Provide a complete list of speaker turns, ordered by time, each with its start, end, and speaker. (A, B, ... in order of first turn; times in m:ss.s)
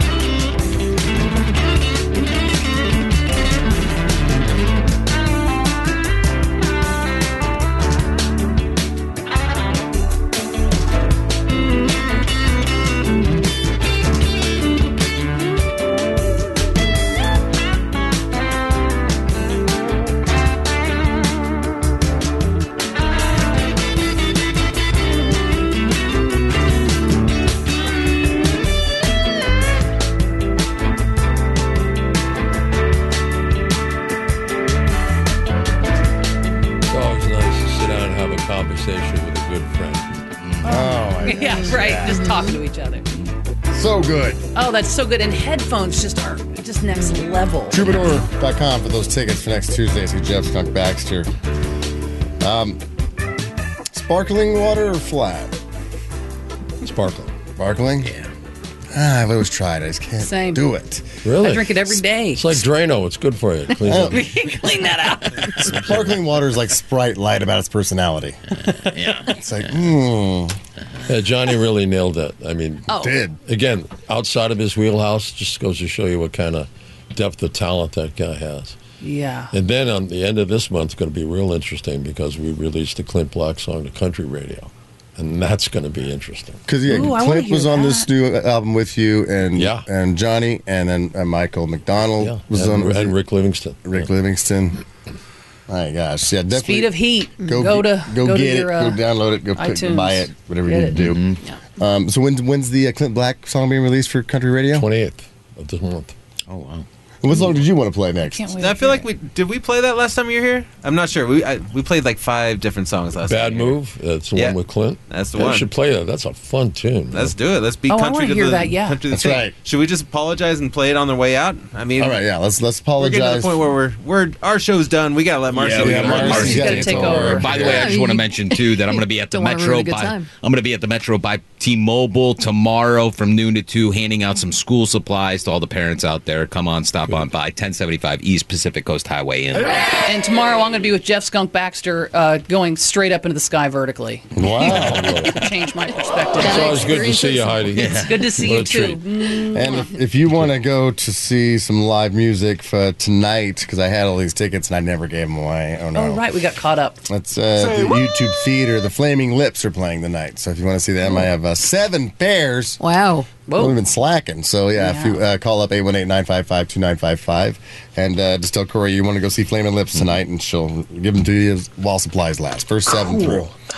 0:36.8-0:40.2 A
0:40.6-0:42.3 B
0:40.6-0:43.0 C
0:42.0-0:42.5 D
0:43.7-0:44.4 B
0:44.5-0:47.9 C
0:47.7-0:51.3 B
0:52.4-0:52.8 B
0:53.9-0:55.5 B
0:56.8-0:57.3 A
0:57.6-0:58.1 B
0:58.9-1:01.2 B
1:00.2-1:00.6 C
1:01.2-1:04.3 A
1:01.4-1:02.6 C
1:03.8-1:05.7 C
1:03.8-1:04.3 B
1:05.4-1:08.4 B
1:05.8-1:06.1 A
1:08.9-1:09.2 C
1:09.0-1:10.6 B
1:11.0-1:18.8 A
1:12.9-1:13.2 C
1:12.9-1:13.4 B
1:19.0-1:19.5 C
1:19.5-1:26.6 A
1:26.7-1:33.2 B
1:26.8-1:28.1 C
1:29.6-1:29.8 A
1:32.2-1:34.0 A
1:33.8-1:34.8 B
1:35.7-1:44.9 B
1:36.5-1:39.0 C
1:39.5-1:41.6 C
1:41.0-1:41.4 E
1:44.7-1:46.1 A
1:46.5-1:46.8 E
1:47.2-1:48.6 B
1:48.3-1:49.1 C
1:48.6-1:53.8 F
1:53.2-1:57.3 A
1:55.1-1:55.7 F
1:57.1-2:02.2 F
1:57.9-1:59.0 C
1:59.1-1:59.5 B
2:02.0-2:03.6 B
2:03.0-2:06.8 F
2:05.6-2:07.9 B
2:05.6-2:19.9 E
2:06.2-2:07.6 C
2:07.0-2:07.3 A
2:07.5-2:10.3 D
2:20.0-2:27.2 C
2:24.3-2:25.3 B
2:24.4-2:25.4 A
2:26.4-2:27.8 D
2:26.4-2:29.0 A
2:27.7-2:29.9 C
2:27.8-2:28.2 E
2:29.5-2:36.3 B
2:35.9-2:37.0 C
2:37.1-2:42.8 B
2:42.8-2:43.4 D
2:43.4-2:43.8 C
2:43.5-2:53.5 B
2:44.8-2:45.2 C